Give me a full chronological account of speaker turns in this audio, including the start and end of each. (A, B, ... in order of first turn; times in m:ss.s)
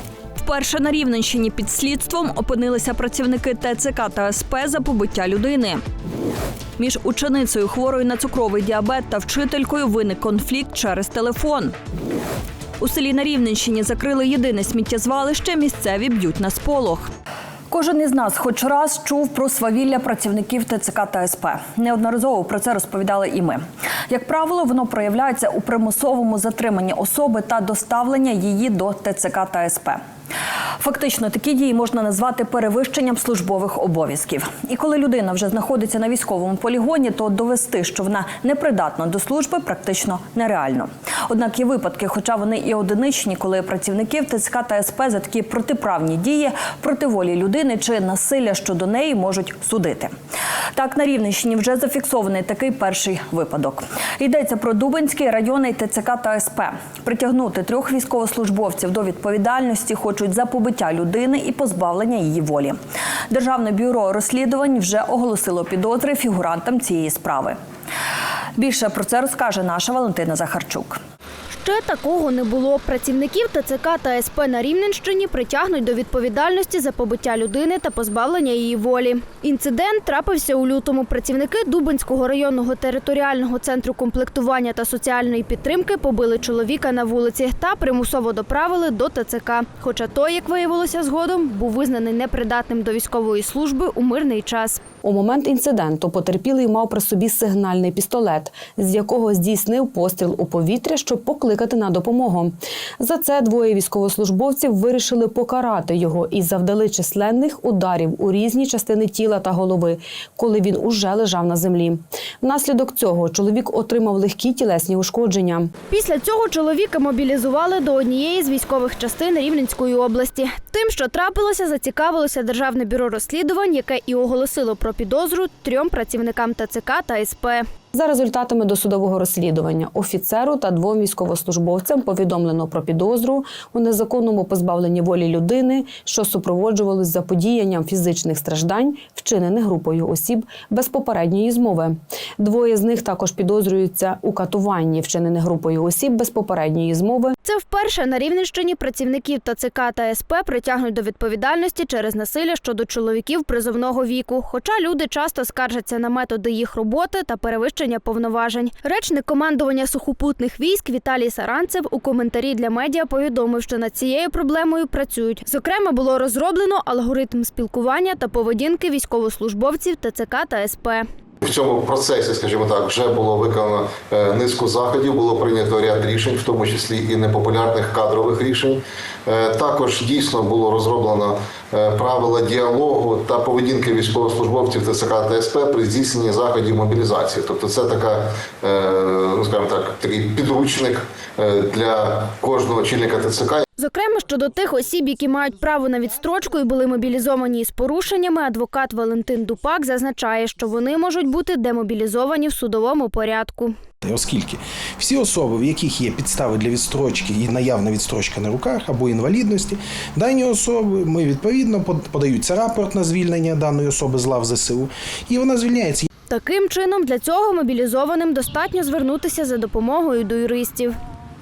0:00.4-0:05.8 A
0:06.8-0:11.7 A
0:12.8-0:17.1 A
0:17.7-0:30.0 A
0:30.8-0:50.1 A
0:50.8-1:02.8 A
1:03.3-1:07.6 A
1:08.6-1:11.0 A
1:11.5-1:34.8 B
1:35.0-1:55.7 C
1:55.9-2:07.7 B
2:07.9-2:27.3 C
2:27.4-2:51.1 B
2:51.4-3:13.6 D
3:13.8-3:23.8 B
3:24.0-3:36.0 E
3:36.3-3:41.0 B